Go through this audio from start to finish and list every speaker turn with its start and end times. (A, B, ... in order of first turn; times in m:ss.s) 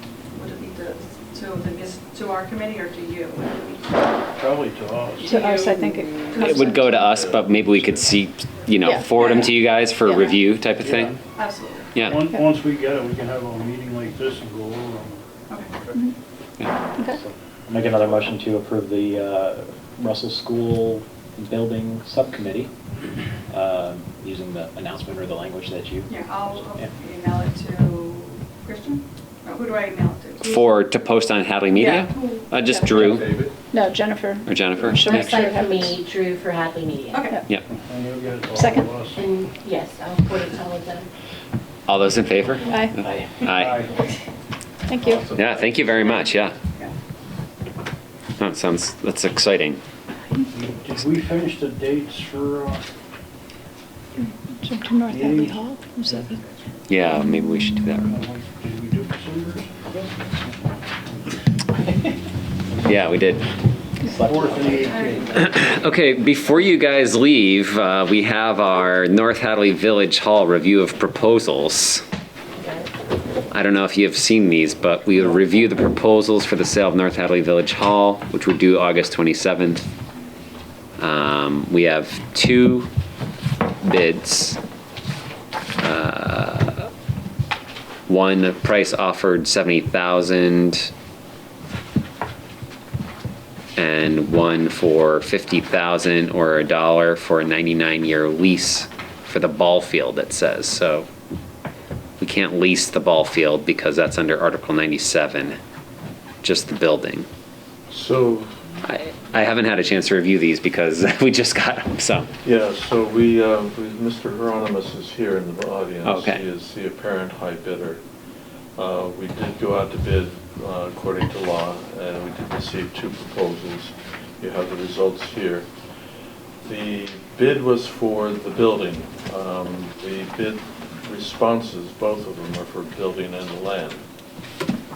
0:00.3-0:04.2 A
0:04.4-0:05.3 B
0:05.2-0:06.8 C
0:05.3-0:05.6 A
0:06.3-0:07.1 A
0:06.4-0:11.1 D
0:06.9-0:08.0 E
0:08.8-0:09.4 C
0:10.8-0:11.2 B
0:11.4-0:11.9 A
0:12.0-0:12.3 D
0:12.0-0:15.2 B
0:17.1-0:22.7 F
0:23.5-0:26.9 F
0:26.1-0:30.8 A
0:30.4-0:33.3 D
0:31.7-0:32.5 A
0:32.9-0:33.6 G
0:33.7-0:36.0 C
0:34.4-0:35.5 D
0:35.0-0:37.2 H
0:37.1-0:37.4 A
0:37.7-0:39.3 B
0:38.5-0:38.9 C
0:39.1-0:41.1 H
0:41.9-0:42.8 D
0:42.6-0:43.0 C
0:43.4-0:43.8 D
0:43.5-0:43.9 B
0:44.9-0:45.3 C
0:45.0-0:46.2 G
0:45.3-0:46.6 D
0:48.4-0:49.8 D
0:50.5-0:52.8 B
0:54.2-0:56.3 C
0:55.1-0:56.3 B
0:56.9-0:58.2 D
0:58.1-0:59.9 B
1:02.8-1:03.4 D
1:04.0-1:05.2 F
1:04.1-1:05.6 B
1:04.7-1:05.6 A
1:05.4-1:12.0 D
1:12.6-1:12.9 H
1:13.5-1:19.9 D
1:21.0-1:22.9 D
1:23.8-1:24.6 D
1:25.8-1:26.9 D
1:28.1-1:30.9 D
1:33.8-1:41.1 D
1:42.2-1:45.6 D
1:46.4-1:47.3 D
1:47.9-1:48.5 E
1:48.8-1:52.3 D
1:52.4-1:58.0 E
1:56.0-1:56.4 D
1:58.8-2:05.7 E
2:06.6-2:14.0 E